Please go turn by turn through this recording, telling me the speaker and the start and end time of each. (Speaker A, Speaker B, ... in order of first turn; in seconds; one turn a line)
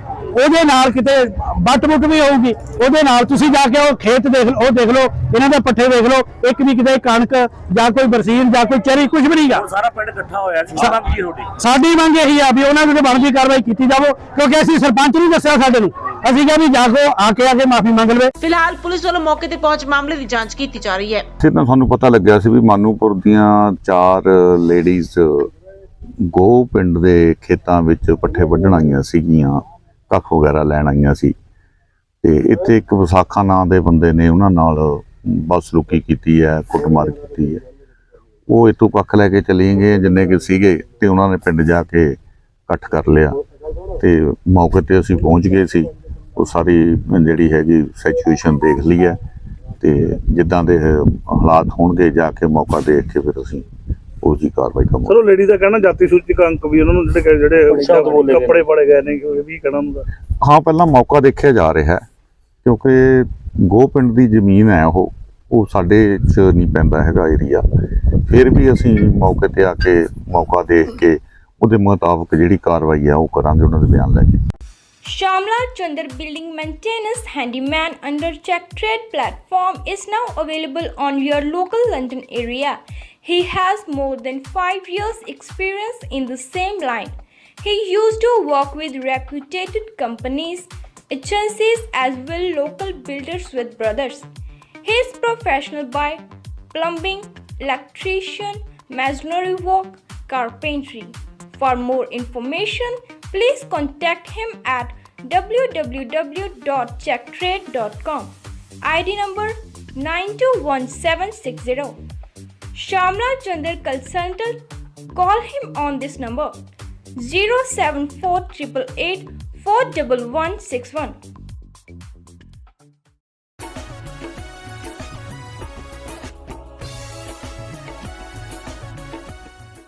Speaker A: 0.3-9.6
Speaker B: 9.4-11.5
Speaker A: 11.6-18.3
Speaker C: 18.4-21.2
Speaker D: 21.4-25.5
Speaker D: 26.2-31.3
Speaker D: 32.2-37.6
Speaker D: 38.5-43.4
Speaker D: 44.0-49.2
Speaker D: 49.8-53.6
Speaker D: 54.2-55.2
Speaker E: 55.1-60.0
Speaker D: 60.4-62.0
Speaker D: 62.6-74.4
Speaker F: 75.0-94.3
Speaker F: 94.8-112.0
Speaker F: 112.7-114.6
Speaker F: 115.1-116.5
Speaker F: 117.2-121.2